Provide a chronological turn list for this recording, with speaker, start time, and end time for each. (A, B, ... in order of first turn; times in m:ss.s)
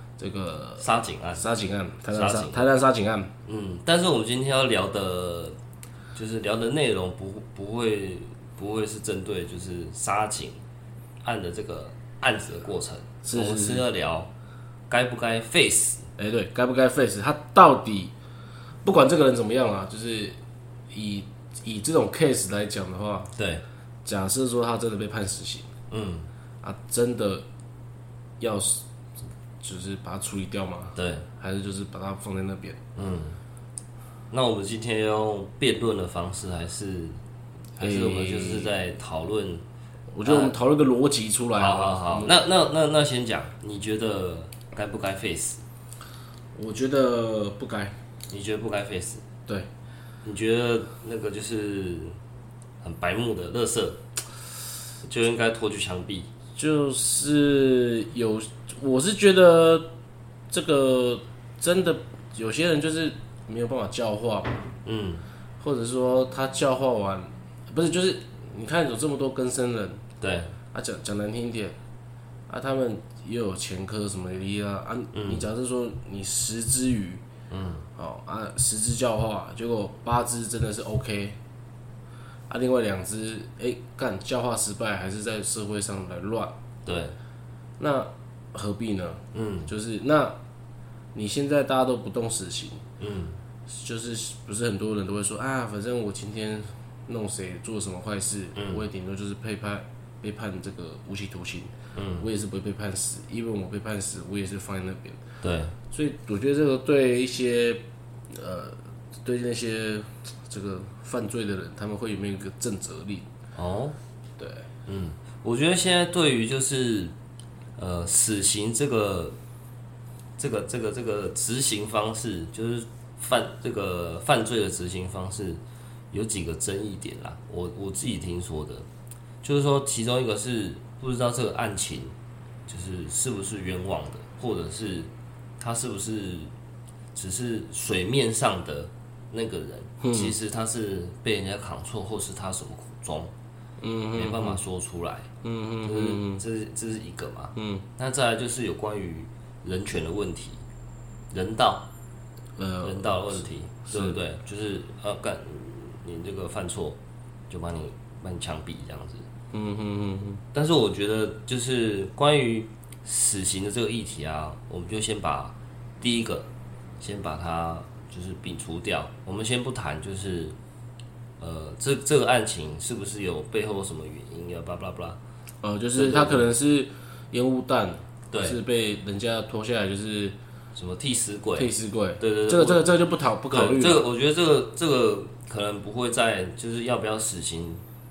0:00.2-0:03.3 A
0:00.8-0:01.4 B
0:02.1-0:02.7 B
0:03.4-0:05.6 B
0:06.2-0:10.6 B
0:11.2-0:14.3 B
0:13.2-0:13.8 A
0:14.9-0:16.1 B
0:16.2-0:18.1 A
0:18.8-0:20.4 A
0:20.9-0:23.3 A
0:23.4-0:23.6 B
0:24.0-0:25.7 A
0:25.9-0:26.3 B
0:26.6-0:27.4 A
0:28.4-0:28.8 A
0:29.6-0:32.8 A
0:31.0-0:31.3 B
0:33.0-0:33.4 B
0:34.3-0:37.2 B
0:37.8-0:39.6 B
0:37.8-0:38.7 A
0:40.1-0:42.4 A
0:40.2-0:40.5 B
0:41.6-0:45.6 B
0:46.5-0:48.0 A
0:48.3-0:49.2 B
0:50.2-0:52.2 B
0:52.8-0:54.0 B
0:55.0-0:56.3 B
0:56.6-0:59.9 A
1:00.5-1:04.5 A
1:04.8-1:05.2 B
1:05.6-1:10.0 A
1:10.2-1:10.5 B
1:10.7-1:11.8 A
1:12.5-1:17.2 A
1:15.1-1:15.4 B
1:17.5-1:17.8 B
1:18.0-1:21.4 A
1:22.5-1:26.5 A
1:26.8-1:27.1 B
1:27.8-1:30.4 A
1:29.3-1:29.7 B
1:31.1-1:32.8 A
1:33.0-1:33.4 B
1:33.7-1:45.2 A
1:38.5-1:38.8 B
1:41.9-1:42.3 B
1:45.4-1:45.8 B
1:45.9-1:53.3 A
1:53.5-1:54.0 B
1:54.4-1:54.7 A
1:54.8-1:57.1 B
1:57.8-1:59.4 B
2:00.4-2:08.8 B
2:09.4-2:12.1 B
2:12.7-2:16.5 B
2:17.1-2:23.3 B
2:20.0-2:20.3 A
2:23.8-2:24.6 A
2:24.1-2:25.3 B
2:25.4-2:26.4 A
2:25.8-2:30.6 B
2:27.6-2:27.8 A
2:31.3-2:31.9 B
2:32.6-2:34.2 A
2:32.8-2:37.0 B
2:37.5-2:39.3 B
2:39.5-2:40.4 A
2:40.5-2:46.5 B
2:47.0-2:50.6 B
2:51.4-2:55.2 B
2:55.6-3:00.3 A
2:56.0-2:56.5 B
2:58.3-2:58.6 B
3:00.8-3:03.0 B
3:01.5-3:04.0 A
3:03.5-3:07.8 B